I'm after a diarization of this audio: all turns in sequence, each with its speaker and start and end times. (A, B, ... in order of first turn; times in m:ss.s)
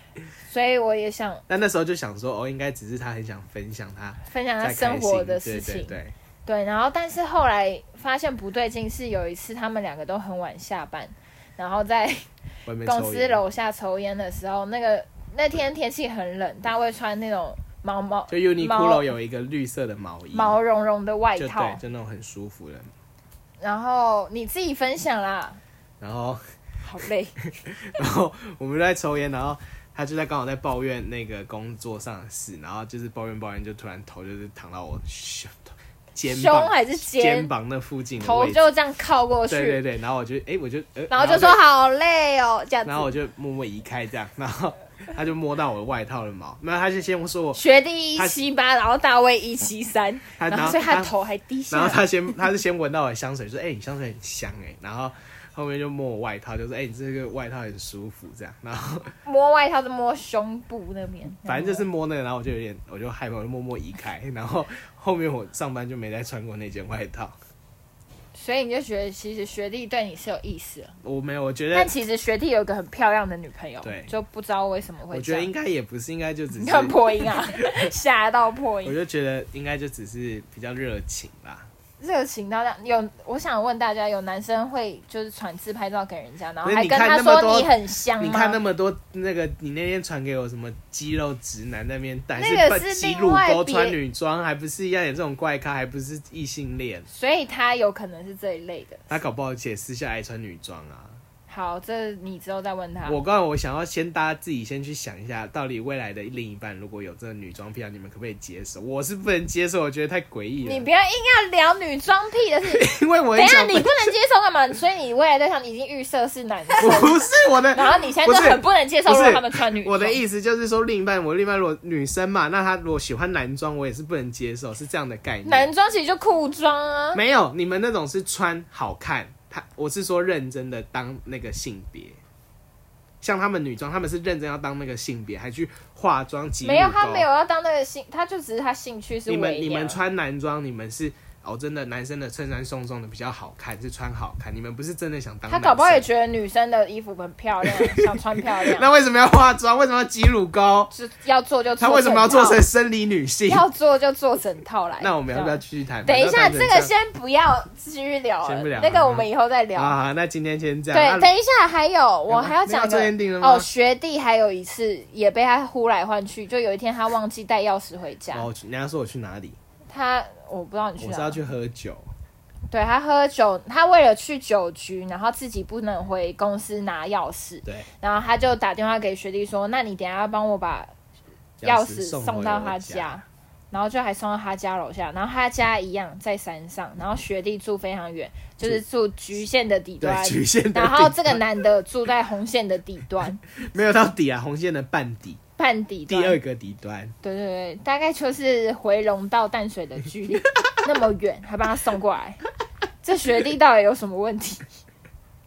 0:00.5-0:01.4 A
0:01.5-0:06.1 B
0:04.3-0:12.2 A
0:12.7-0:13.4 B
0:12.8-0:19.1 A
0:18.3-0:20.6 B
0:20.3-0:21.8 A
0:21.4-0:22.9 B
0:23.6-0:25.6 A
0:26.0-0:26.4 B
0:26.8-0:27.4 A
0:27.9-0:38.6 B
0:36.2-0:37.5 A
0:38.2-0:39.8 A
0:39.5-0:41.6 B
0:41.1-0:43.1 A
0:42.9-0:47.6 B
0:47.6-0:52.0 A
0:50.4-0:51.1 B
0:51.7-0:59.1 B
0:59.2-1:01.9 A
1:01.5-1:07.4 B
1:08.3-1:10.9 A
1:11.0-1:11.9 B
1:11.7-1:15.5 A
1:13.8-1:14.1 B
1:15.1-1:17.7 B
1:16.5-1:19.0 A
1:18.8-1:21.7 B
1:22.0-1:28.6 A
1:26.6-1:37.1 B
1:32.4-1:34.0 A
1:37.1-1:39.2 A
1:39.1-1:41.2 B
1:41.5-1:43.2 A
1:43.1-1:50.9 B
1:50.6-2:00.2 A
1:52.7-1:54.1 B
1:56.8-2:05.7 B
2:05.4-2:07.2 A
2:07.1-2:12.2 B
2:13.2-2:17.3 B
2:16.6-2:20.0 A
2:19.3-2:26.1 B
2:25.5-2:28.9 A
2:27.6-2:30.9 B
2:30.9-2:32.6 A
2:31.8-2:33.6 B
2:33.5-2:40.0 A
2:35.0-2:36.9 B
2:38.4-2:41.3 B
2:40.9-2:48.5 A
2:42.3-2:43.7 B
2:48.3-2:49.6 B
2:49.9-2:51.4 A
2:51.0-2:52.1 B
2:52.7-3:00.9 A
3:01.6-3:03.2 B
3:01.6-3:13.4 A
3:10.0-3:11.4 B
3:13.6-3:15.4 B
3:15.6-3:16.4 A
3:16.1-3:17.1 B
3:17.2-3:22.4 A
3:23.0-3:24.6 A